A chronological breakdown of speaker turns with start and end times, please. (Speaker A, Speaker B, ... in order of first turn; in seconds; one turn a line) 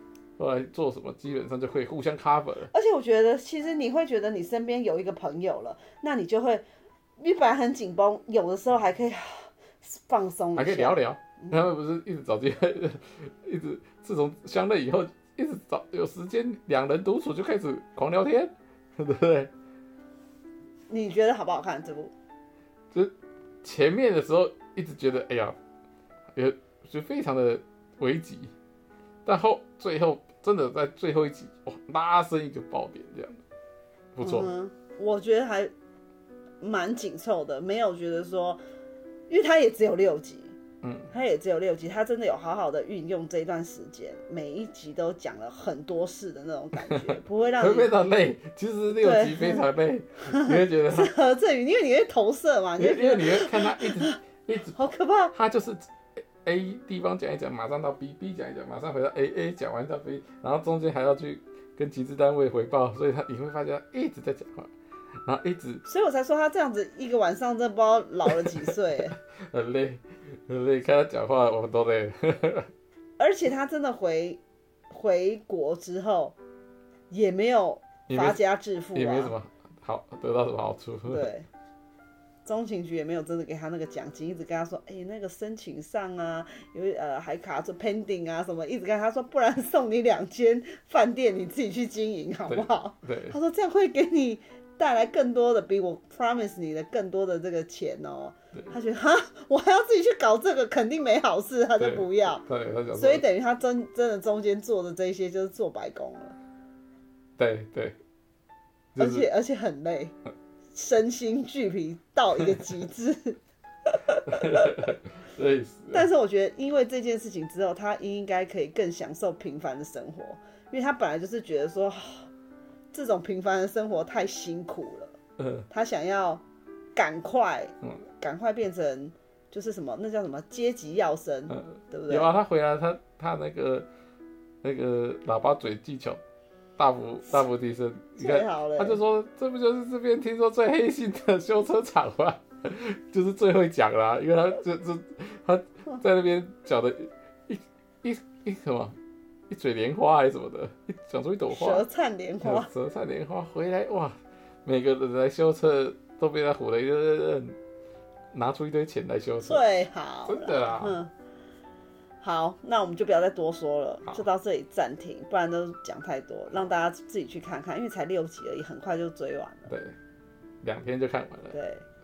Speaker A: 0.4-2.7
Speaker B: 2.7-6.6
Speaker B: 7.2-11.6
Speaker A: 10.6-19.5
Speaker B: 20.9-22.1
Speaker A: 22.9-25.6
Speaker A: 26.3-28.5
Speaker A: 29.2-33.4
Speaker A: 34.1-34.5
Speaker B: 34.2-35.7
Speaker B: 36.6-38.6
Speaker B: 39.3-40.6
Speaker A: 40.8-41.1
Speaker B: 41.1-47.9
Speaker A: 46.9-51.1
Speaker B: 48.9-49.7
Speaker B: 50.3-55.4
Speaker A: 52.8-64.7
Speaker A: 65.2-65.8
Speaker B: 65.8-69.1
Speaker A: 68.5-72.7
Speaker B: 73.2-76.3
Speaker B: 77.1-79.3
Speaker A: 78.1-78.4
Speaker A: 78.9-81.3
Speaker B: 81.1-81.5
Speaker B: 82.4-102.4
Speaker A: 92.5-93.3
Speaker A: 101.8-103.2
Speaker B: 103.0-106.3
Speaker A: 107.4-108.0
Speaker A: 108.9-109.3
Speaker B: 109.0-110.1
Speaker B: 110.7-114.9
Speaker A: 114.3-116.1
Speaker B: 115.9-122.3
Speaker B: 122.9-125.2
Speaker B: 125.7-126.4
Speaker B: 127.0-132.3
Speaker A: 131.5-133.9
Speaker A: 134.6-136.2
Speaker A: 136.8-149.0
Speaker B: 138.2-139.0
Speaker A: 149.5-151.8
Speaker B: 151.5-152.7
Speaker A: 152.4-157.6
Speaker A: 158.3-159.6
Speaker B: 159.4-161.1
Speaker A: 160.2-161.0
Speaker B: 162.2-169.7
Speaker A: 169.7-169.9
Speaker A: 170.6-171.5
Speaker B: 171.5-171.8